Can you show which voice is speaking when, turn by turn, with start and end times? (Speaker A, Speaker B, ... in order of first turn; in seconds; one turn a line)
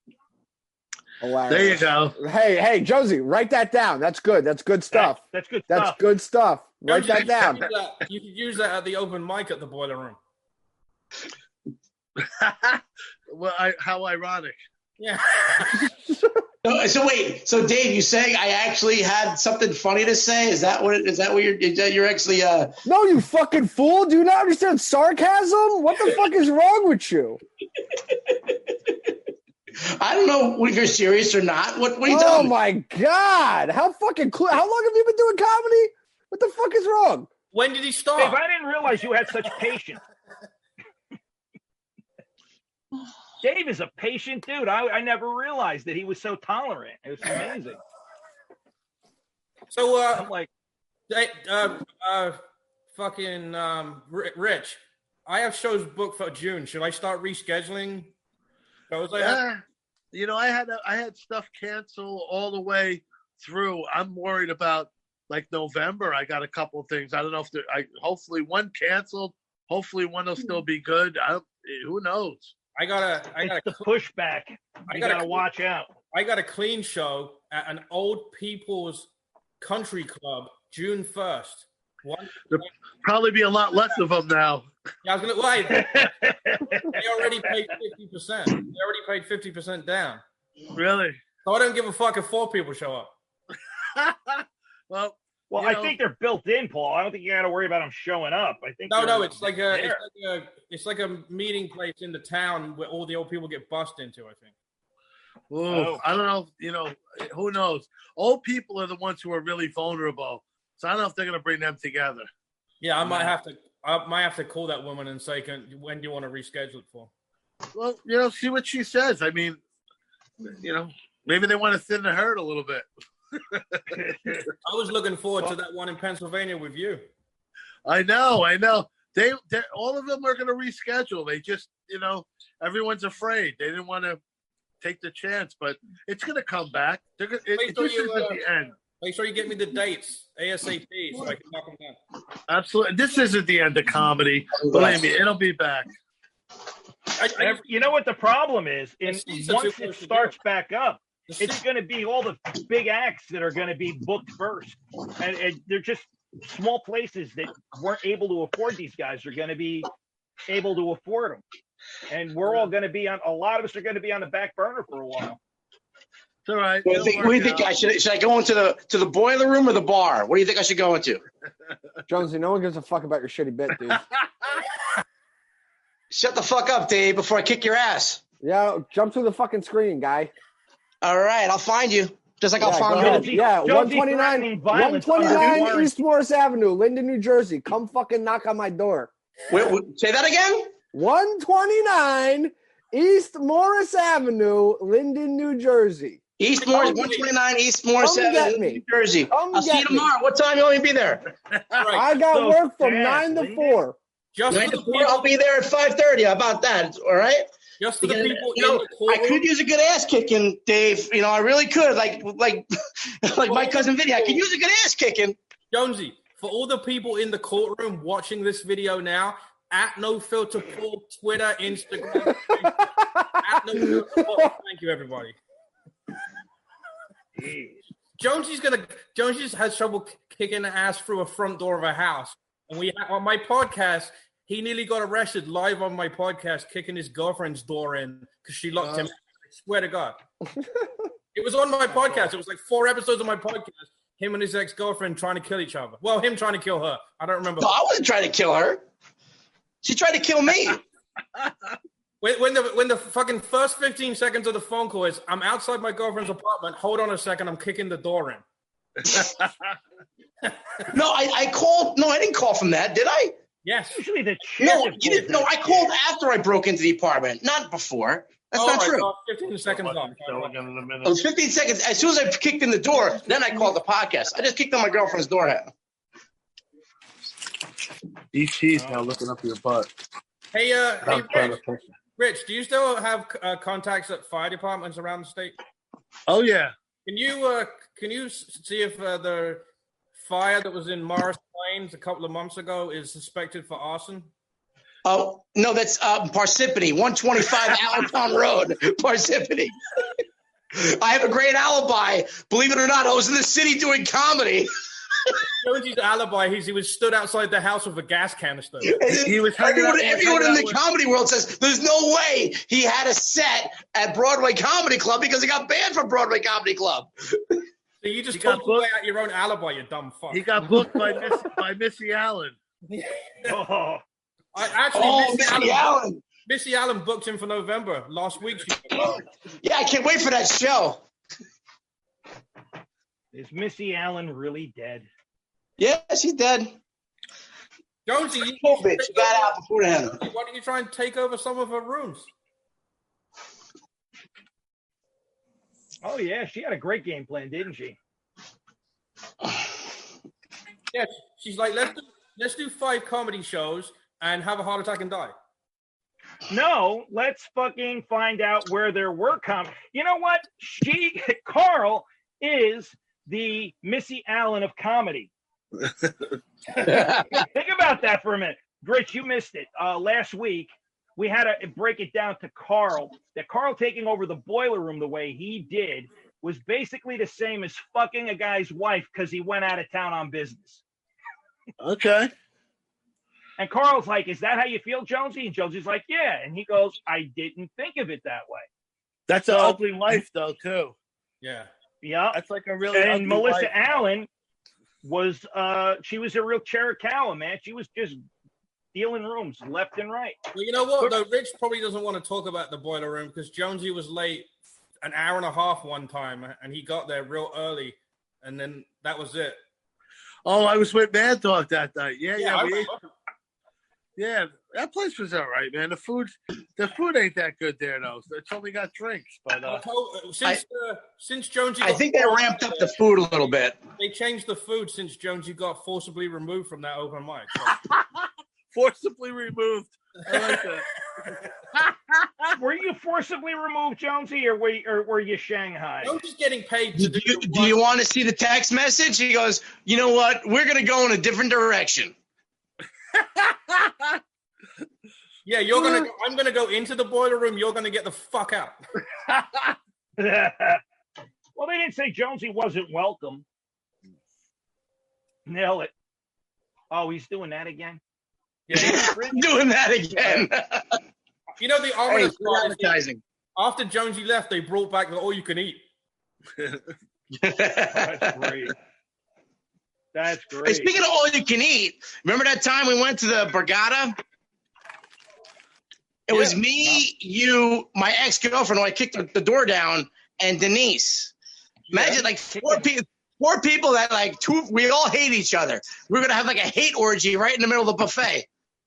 Speaker A: 1.2-7.7
Speaker B: 1.5-2.2
Speaker C: 4.9-6.0
Speaker D: 6.8-10.2
Speaker B: 12.2-14.6
Speaker D: 15.0-15.9
Speaker A: 15.8-16.4
Speaker E: 16.6-22.7
Speaker A: 22.8-27.4
Speaker E: 28.1-29.1
Speaker E: 30.0-32.5
Speaker A: 32.0-37.3
Speaker D: 37.5-38.4
Speaker C: 38.2-40.0
Speaker C: 43.4-47.8
Speaker D: 49.7-50.3
Speaker C: 50.1-50.5
Speaker D: 51.1-52.4
Speaker D: 52.9-58.1
Speaker D: 58.9-59.4
Speaker B: 59.1-59.6
Speaker B: 60.1-72.5
Speaker D: 72.8-73.8
Speaker C: 73.4-75.9
Speaker D: 74.9-75.4
Speaker D: 76.1-79.1
Speaker D: 79.6-82.7
Speaker B: 82.5-84.7
Speaker D: 85.0-86.1
Speaker C: 85.7-87.5
Speaker D: 86.8-90.2
Speaker B: 90.7-91.2
Speaker D: 91.4-93.1
Speaker B: 93.9-96.0
Speaker C: 95.5-100.0
Speaker D: 98.9-104.5
Speaker B: 105.5-112.3
Speaker C: 105.7-106.0
Speaker D: 112.8-117.1
Speaker B: 117.7-119.6
Speaker B: 120.5-123.8
Speaker C: 123.9-124.5
Speaker D: 124.6-127.0
Speaker B: 127.8-134.2
Speaker B: 134.8-138.7
Speaker D: 137.5-142.0
Speaker B: 142.5-145.9
Speaker E: 144.6-145.0
Speaker D: 147.2-147.6
Speaker C: 147.4-159.9
Speaker D: 149.1-150.3
Speaker D: 151.3-151.6
Speaker C: 160.5-161.4
Speaker C: 162.1-165.4
Speaker B: 166.4-167.7
Speaker E: 166.8-171.2
Speaker A: 172.1-174.0
Speaker B: 173.9-174.6
Speaker E: 176.1-178.2
Speaker A: 178.4-180.3
Speaker E: 181.0-183.4
Speaker A: 182.6-189.1
Speaker C: 182.9-185.9
Speaker E: 189.5-190.7
Speaker A: 190.9-196.2
Speaker E: 196.4-201.3
Speaker D: 196.6-197.3
Speaker A: 198.0-200.1
Speaker D: 201.7-202.1
Speaker A: 201.9-204.0
Speaker C: 202.3-203.8
Speaker D: 204.3-205.3
Speaker E: 204.5-207.5
Speaker D: 207.8-209.4
Speaker E: 208.0-215.4
Speaker D: 213.4-214.4
Speaker D: 215.7-225.3
Speaker A: 222.2-224.4
Speaker C: 227.4-227.8
Speaker D: 228.2-240.2
Speaker B: 238.8-239.1
Speaker D: 241.3-247.7
Speaker E: 247.6-248.8
Speaker E: 249.8-250.8
Speaker D: 252.2-258.4
Speaker B: 259.1-259.5
Speaker E: 260.9-263.4
Speaker D: 263.6-264.0
Speaker C: 263.9-265.9
Speaker E: 264.6-269.1
Speaker D: 268.5-270.6
Speaker B: 269.5-271.2
Speaker E: 271.0-275.7
Speaker B: 278.3-279.9
Speaker C: 278.7-279.0
Speaker D: 280.5-281.6
Speaker B: 281.0-281.8
Speaker D: 282.1-285.6
Speaker B: 286.3-286.7
Speaker D: 287.1-289.6
Speaker D: 290.2-294.3
Speaker E: 295.0-299.7
Speaker E: 300.7-304.7
Speaker D: 305.6-309.0
Speaker E: 308.8-317.6
Speaker B: 309.1-310.8
Speaker D: 318.0-320.5
Speaker B: 318.3-318.9
Speaker B: 320.3-322.6
Speaker D: 322.9-323.4
Speaker C: 323.4-324.0
Speaker D: 324.5-325.9
Speaker E: 324.9-326.2
Speaker D: 326.4-329.2
Speaker E: 328.9-331.0
Speaker C: 333.3-335.1
Speaker E: 335.8-336.8
Speaker D: 338.1-342.3
Speaker E: 338.6-340.2
Speaker C: 346.0-348.0
Speaker D: 350.9-355.3
Speaker C: 356.5-365.3
Speaker C: 366.8-380.8
Speaker E: 366.8-367.3
Speaker B: 381.8-382.3
Speaker C: 383.6-388.7
Speaker B: 389.3-390.9
Speaker C: 389.5-389.8
Speaker D: 391.4-391.7
Speaker C: 392.0-392.4
Speaker B: 392.3-393.7
Speaker C: 392.9-394.3
Speaker C: 395.0-398.2
Speaker C: 398.9-400.4
Speaker D: 400.5-404.5
Speaker D: 405.0-409.6
Speaker B: 410.4-412.9
Speaker D: 412.4-413.1
Speaker B: 414.2-419.8
Speaker D: 419.6-423.0
Speaker E: 421.8-423.8
Speaker D: 423.9-427.8
Speaker B: 427.7-430.8
Speaker D: 430.3-430.6
Speaker B: 431.7-432.5
Speaker C: 432.5-436.1
Speaker D: 436.0-437.8
Speaker E: 437.0-442.1
Speaker B: 443.3-443.9
Speaker D: 445.4-448.8
Speaker B: 449.3-449.7
Speaker C: 450.2-450.8
Speaker C: 451.6-453.4
Speaker C: 455.5-455.9
Speaker C: 456.9-458.0
Speaker C: 458.7-459.5
Speaker E: 458.7-461.0
Speaker D: 461.6-463.0
Speaker E: 462.1-463.2
Speaker D: 463.6-465.8
Speaker E: 467.4-468.5
Speaker C: 467.9-468.7
Speaker C: 470.1-470.9
Speaker E: 470.6-474.1
Speaker E: 476.3-481.3
Speaker C: 476.3-477.0
Speaker E: 481.9-488.5
Speaker C: 481.9-482.8